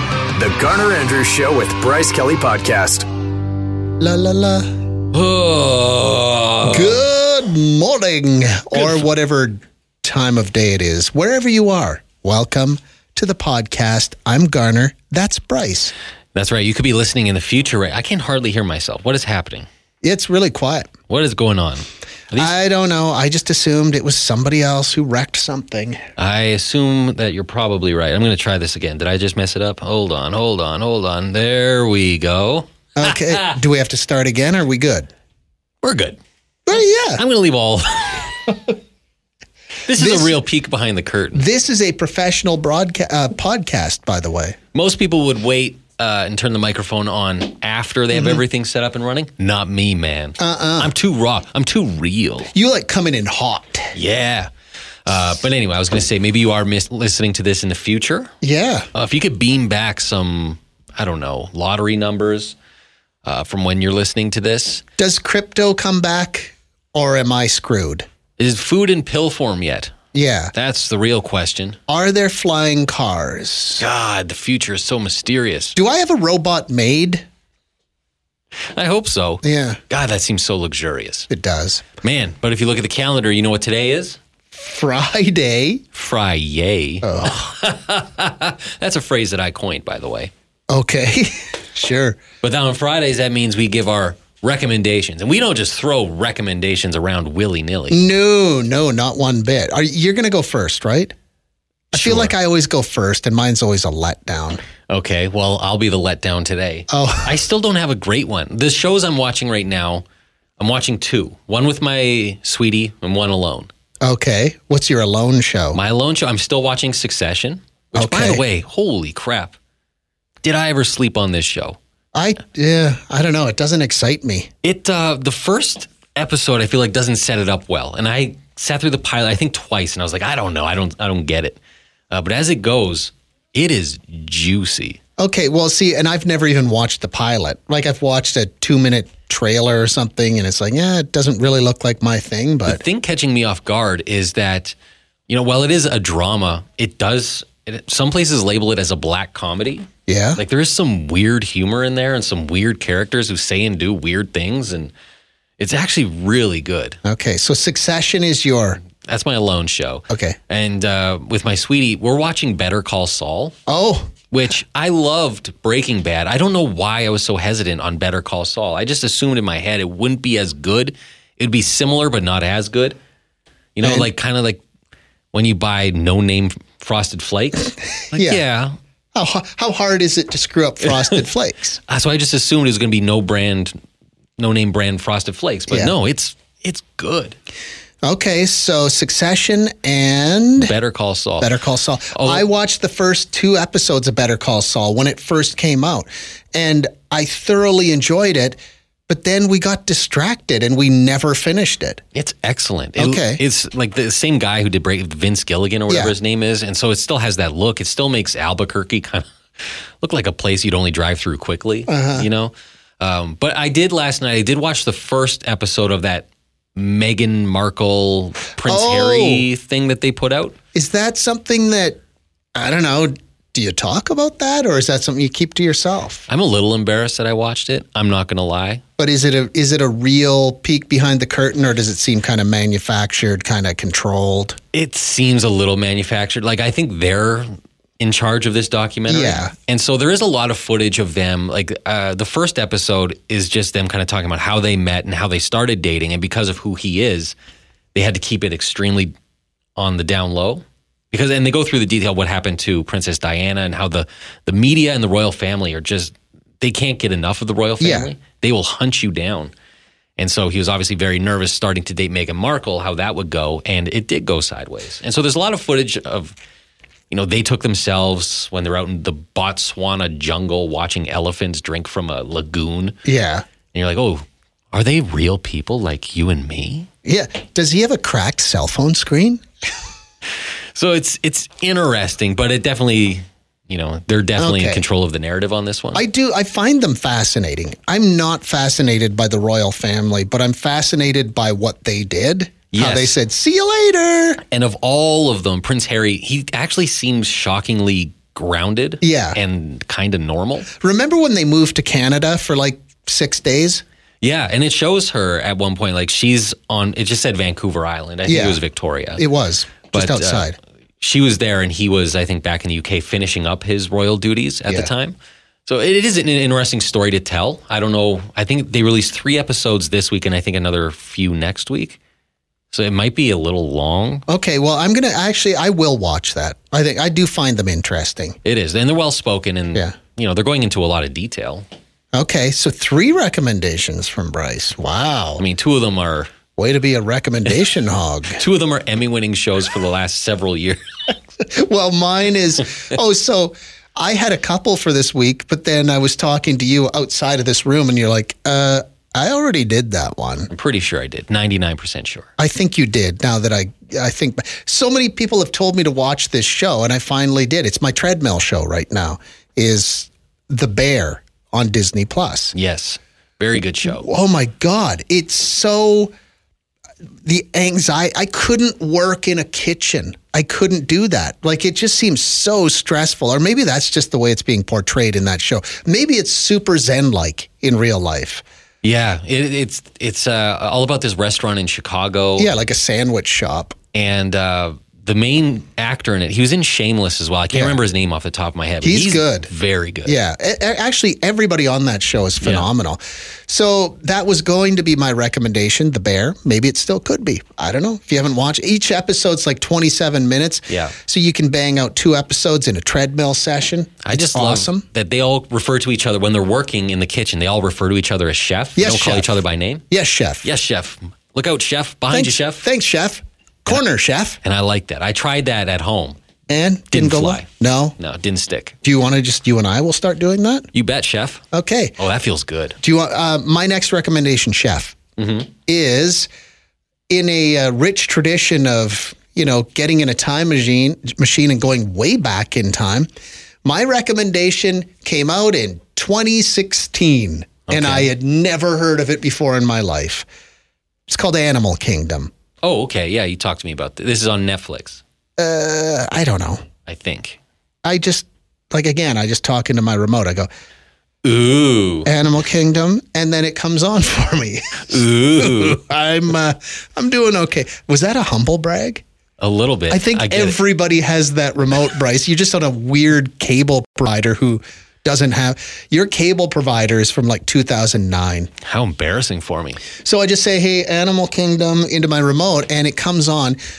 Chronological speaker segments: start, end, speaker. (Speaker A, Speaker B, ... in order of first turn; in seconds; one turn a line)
Speaker A: 0.3-3.1
Speaker B: 4.0-4.7
Speaker C: 5.1-7.0
Speaker B: 6.6-15.9
Speaker C: 8.7-9.0
Speaker C: 16.4-19.7
Speaker B: 20.0-20.9
Speaker C: 21.1-22.5
Speaker B: 22.4-26.0
Speaker C: 26.2-33.6
Speaker B: 33.0-35.1
Speaker C: 35.8-36.2
Speaker B: 36.7-37.2
Speaker C: 37.1-38.3
Speaker C: 39.9-41.4
Speaker B: 40.0-40.4
Speaker B: 41.3-44.6
Speaker C: 44.7-52.5
Speaker B: 48.1-48.4
Speaker B: 50.4-50.9
Speaker B: 52.5-53.9
Speaker C: 54.0-54.5
Speaker C: 55.0-58.3
Speaker B: 58.4-58.9
Speaker C: 58.9-62.5
Speaker C: 63.2-64.8
Speaker B: 65.0-68.1
Speaker C: 68.4-70.0
Speaker B: 70.1-70.5
Speaker C: 70.5-71.8
Speaker B: 71.9-73.8
Speaker C: 73.8-75.8
Speaker B: 75.8-77.2
Speaker C: 78.7-81.3
Speaker B: 79.4-79.8
Speaker B: 81.3-81.9
Speaker C: 82.0-84.2
Speaker B: 84.5-85.8
Speaker C: 85.9-90.3
Speaker B: 87.0-87.5
Speaker B: 90.7-92.2
Speaker C: 92.4-98.0
Speaker B: 97.9-101.2
Speaker B: 101.9-104.6
Speaker C: 101.9-102.3
Speaker C: 104.9-110.0
Speaker B: 106.9-107.3
Speaker C: 110.6-113.7
Speaker B: 114.0-115.8
Speaker C: 115.7-119.6
Speaker B: 118.0-118.4
Speaker C: 120.4-121.8
Speaker B: 122.2-124.5
Speaker C: 124.6-135.0
Speaker B: 135.2-142.8
Speaker C: 142.7-144.8
Speaker C: 145.3-154.9
Speaker B: 150.1-150.4
Speaker C: 155.6-157.0
Speaker B: 157.1-158.8
Speaker C: 158.9-163.6
Speaker B: 160.1-160.4
Speaker B: 163.7-164.1
Speaker C: 164.3-173.0
Speaker C: 173.8-174.6
Speaker B: 173.8-174.1
Speaker C: 175.3-178.8
Speaker B: 178.1-178.4
Speaker B: 179.2-181.8
Speaker C: 181.9-183.8
Speaker C: 184.4-187.4
Speaker B: 188.0-190.7
Speaker C: 190.6-191.5
Speaker B: 191.4-202.0
Speaker C: 192.1-192.4
Speaker C: 202.2-209.3
Speaker B: 203.0-203.4
Speaker B: 205.9-206.1
Speaker C: 210.0-220.6
Speaker B: 211.9-212.3
Speaker B: 218.6-219.5
Speaker B: 220.7-222.0
Speaker B: 222.6-226.3
Speaker C: 226.3-228.8
Speaker B: 229.0-234.6
Speaker C: 234.7-247.3
Speaker B: 239.1-239.5
Speaker C: 247.9-249.1
Speaker C: 249.8-259.5
Speaker B: 257.8-258.1
Speaker C: 260.2-266.3
Speaker C: 267.1-273.0
Speaker B: 273.1-273.4
Speaker C: 273.7-276.9
Speaker B: 277.1-279.4
Speaker C: 280.8-286.0
Speaker B: 284.4-284.8
Speaker B: 285.9-294.4
Speaker C: 292.7-293.1
Speaker C: 294.5-300.7
Speaker B: 299.0-299.4
Speaker B: 300.8-303.8
Speaker C: 304.2-309.2
Speaker B: 308.3-308.6
Speaker B: 309.2-310.6
Speaker C: 309.9-310.5
Speaker C: 311.0-322.0
Speaker C: 322.7-324.2
Speaker B: 324.3-328.4
Speaker C: 328.4-331.6
Speaker B: 332.1-335.4
Speaker C: 335.4-336.3
Speaker B: 336.6-338.4
Speaker C: 338.4-340.8
Speaker B: 341.4-350.5
Speaker C: 350.5-352.3
Speaker B: 352.4-362.6
Speaker C: 362.5-364.1
Speaker B: 363.9-366.1
Speaker B: 367.2-378.4
Speaker C: 378.8-382.5
Speaker B: 382.4-383.8
Speaker C: 383.9-390.2
Speaker B: 387.5-387.8
Speaker B: 388.8-389.5
Speaker B: 390.1-404.9
Speaker C: 392.4-392.7
Speaker C: 400.7-400.9
Speaker C: 404.1-409.8
Speaker B: 408.8-409.3
Speaker B: 409.9-410.5
Speaker C: 410.4-412.6
Speaker B: 412.1-414.4
Speaker C: 414.4-416.2
Speaker B: 416.5-418.0
Speaker C: 416.9-418.8
Speaker B: 418.8-420.7
Speaker C: 420.7-421.4
Speaker B: 421.5-422.0
Speaker C: 422.0-422.8
Speaker B: 422.8-425.0
Speaker C: 425.2-425.5
Speaker B: 425.7-426.3
Speaker B: 427.1-433.1
Speaker B: 433.6-440.3
Speaker C: 437.7-438.1
Speaker B: 441.1-442.3
Speaker C: 442.6-445.0
Speaker B: 445.4-446.6
Speaker C: 446.9-447.4
Speaker B: 447.8-450.5
Speaker C: 451.2-452.1
Speaker B: 452.1-459.0
Speaker C: 454.9-455.8
Speaker C: 459.4-460.6
Speaker B: 459.9-468.5
Speaker C: 468.6-469.8
Speaker B: 470.0-473.6